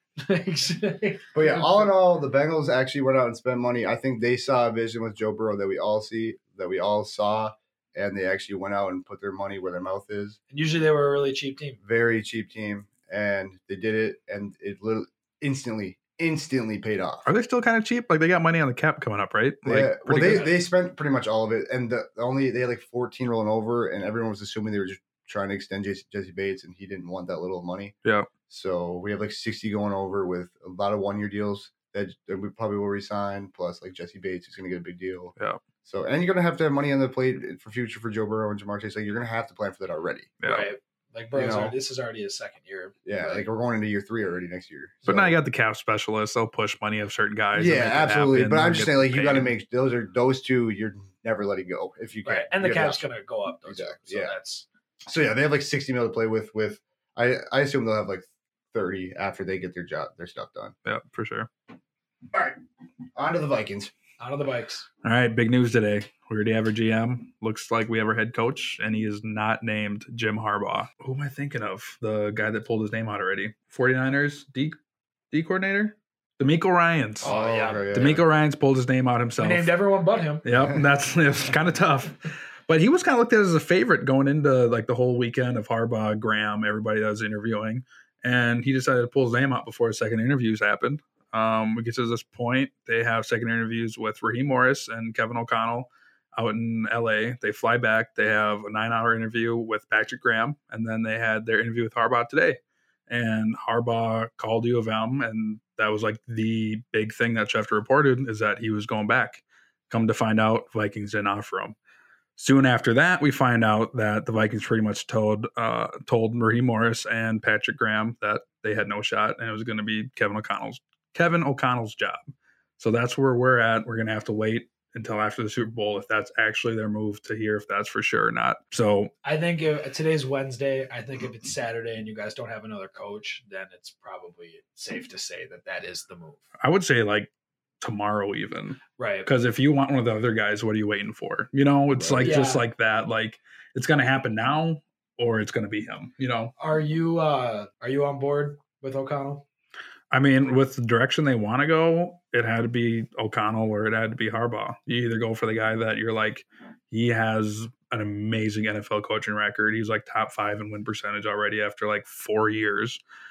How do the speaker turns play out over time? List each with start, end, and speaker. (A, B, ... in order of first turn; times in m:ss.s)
0:00.2-0:01.8 A
0:01.3-0:10.4 B
0:10.5-0:11.8 A
0:11.8-0:17.3 B
0:17.2-0:20.4 C
0:19.6-0:27.9 B
0:20.2-0:20.5 A
0:28.5-0:35.3 B
0:35.8-0:40.3 B
0:40.4-0:40.7 C
0:40.4-0:43.4 A
0:41.3-0:41.8 B
0:43.0-0:45.4 B
0:45.0-0:49.5 C
0:47.5-0:53.0 B
0:52.2-0:54.6 A
0:53.6-0:54.3 B
0:55.0-1:00.7 B
1:00.8-1:01.5 C
1:02.3-1:02.6 B
1:03.2-1:03.9 B
1:04.2-1:04.8 A
1:05.0-1:14.8 C
1:15.3-1:17.3 C
1:17.2-1:17.9 A
1:17.2-1:18.2 B
1:17.9-1:19.7 C
1:19.4-1:20.4 A
1:20.4-1:51.8 C
1:52.4-2:02.2 C
2:02.8-2:09.1 C
2:09.2-2:16.4 A
2:16.6-2:17.3 C
2:17.8-2:26.5 C
2:19.0-2:19.3 A
2:21.9-2:22.4 B
2:22.2-2:22.6 A
2:26.6-2:29.4 A
2:30.1-2:43.0 C